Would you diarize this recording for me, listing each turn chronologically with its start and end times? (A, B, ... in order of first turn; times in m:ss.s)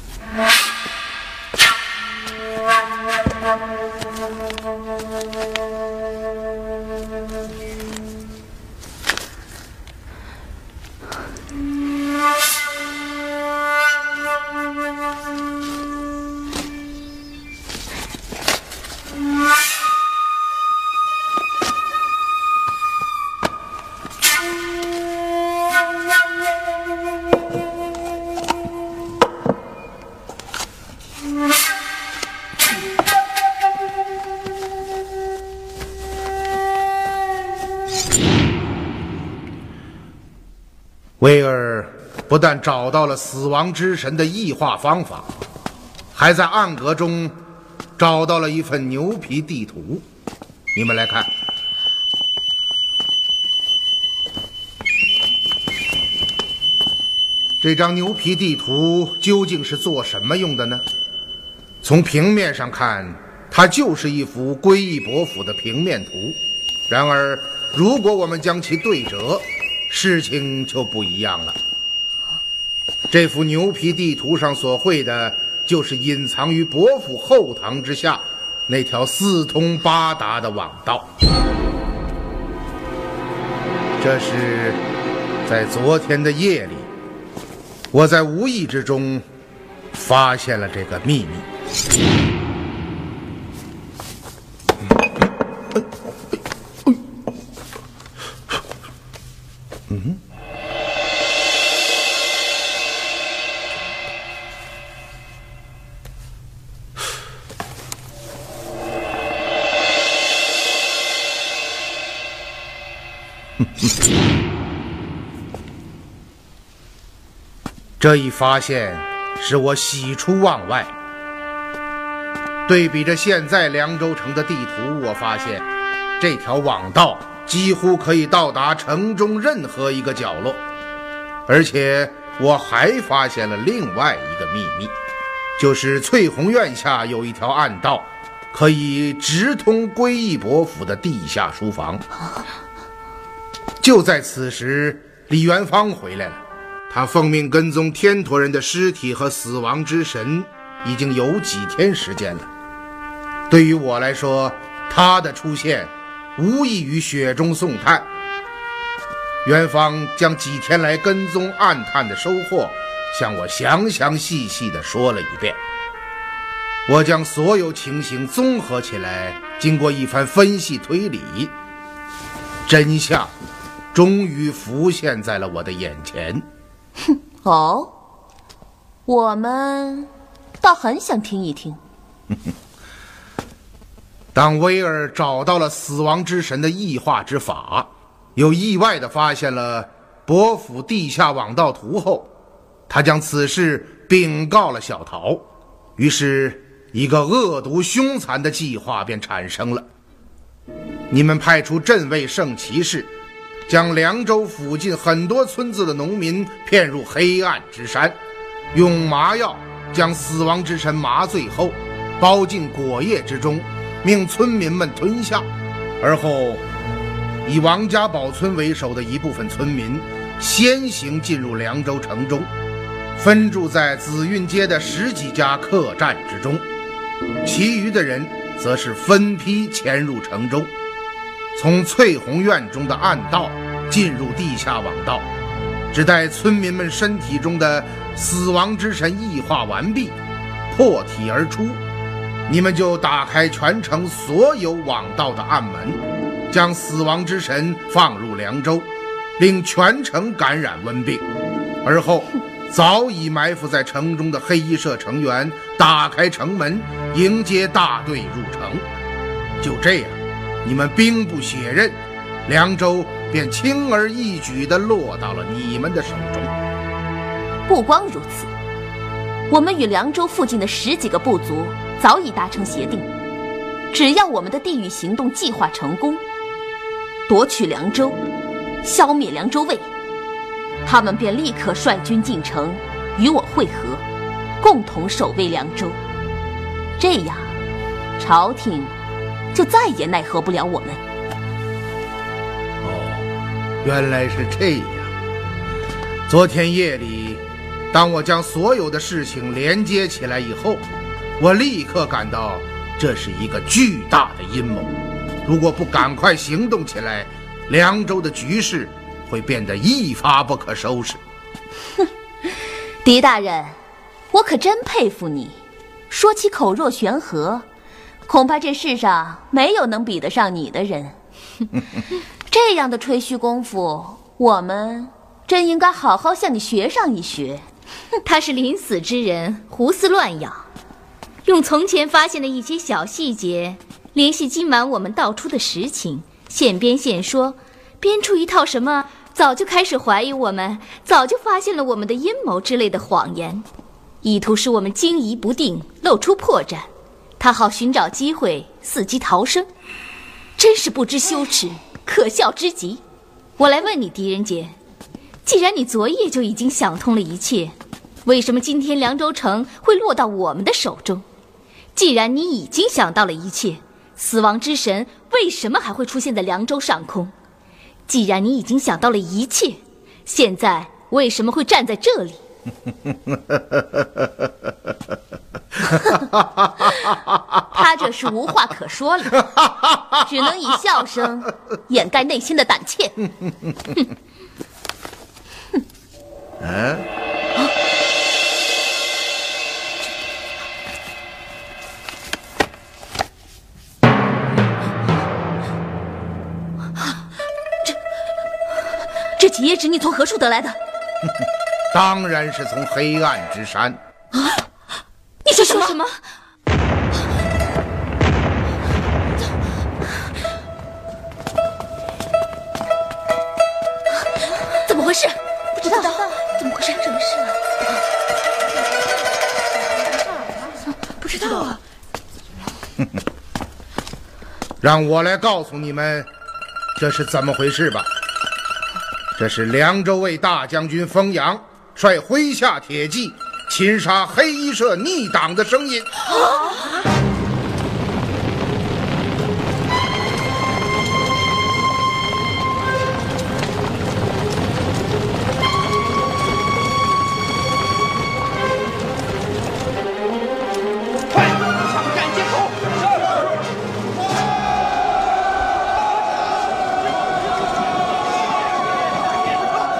0:41.2-0:45.3 A
0:46.1-0:47.4 A
0:48.0-0:50.0 A
0:50.7-0:51.3 A
0:57.6-1:00.8 A
1:01.8-1:11.6 A
1:13.1-1:21.1 A
1:24.0-1:24.8 A
1:25.4-1:26.9 A
1:27.9-1:29.2 A
1:29.9-1:31.5 A
1:39.9-1:40.2 A
1:58.0-2:01.0 A
2:02.7-2:05.7 A
2:06.2-2:10.6 A
2:11.5-2:14.9 A
2:15.6-2:22.0 A
2:23.8-2:32.5 A
2:33.5-2:38.1 A
2:39.4-2:45.6 A
2:46.9-2:51.5 A
2:52.7-2:53.3 A
2:53.9-2:56.5 A
2:57.4-2:57.9 B
2:59.1-3:01.8 B
3:04.3-3:12.3 A
3:12.9-3:15.5 A
3:16.0-3:19.9 A
3:21.1-3:23.1 A
3:23.7-3:28.2 A
3:28.7-3:35.5 A
3:36.0-3:36.6 A
3:37.4-3:42.5 A
3:43.2-3:46.7 A
3:47.4-3:50.7 A
3:51.6-3:55.3 A
3:55.9-4:00.2 A
4:00.7-4:01.8 A
4:02.5-4:11.2 A
4:11.8-4:18.8 A
4:19.6-4:26.5 A
4:27.7-4:28.5 B
4:29.5-4:33.1 B
4:33.9-4:36.2 B
4:37.3-4:38.2 B
4:38.8-4:39.9 B
4:40.8-4:44.0 B
4:44.6-4:46.0 B
4:47.0-4:47.5 B
4:48.2-4:48.9 B
4:49.5-4:51.0 B
4:52.8-4:53.3 A
4:53.8-4:55.1 A
4:56.3-5:00.8 A
5:01.4-5:04.9 A
5:05.4-5:11.2 A
5:13.0-5:13.8 B
5:14.3-5:17.6 B
5:18.3-5:21.2 B
5:22.5-5:27.6 B
5:28.2-5:30.6 C
5:31.4-5:43.7 C
5:44.2-5:49.7 C
5:50.6-5:53.0 C
5:53.6-5:54.8 C
5:55.5-6:01.2 C
6:02.0-6:07.3 C
6:08.1-6:12.4 C
6:17.7-6:19.5 B
6:19.6-6:20.1 A
6:20.1-6:23.3 B
6:26.6-6:27.0 A
6:39.4-6:40.8 B
6:41.9-6:44.0 A
6:45.5-6:46.2 C
6:45.5-6:45.9 B
6:54.9-6:57.6 C
6:55.8-6:56.3 B
7:01.2-7:01.7 B
7:01.3-7:01.8 C
7:04.8-7:06.3 A
7:07.0-7:08.1 A
7:09.4-7:16.2 A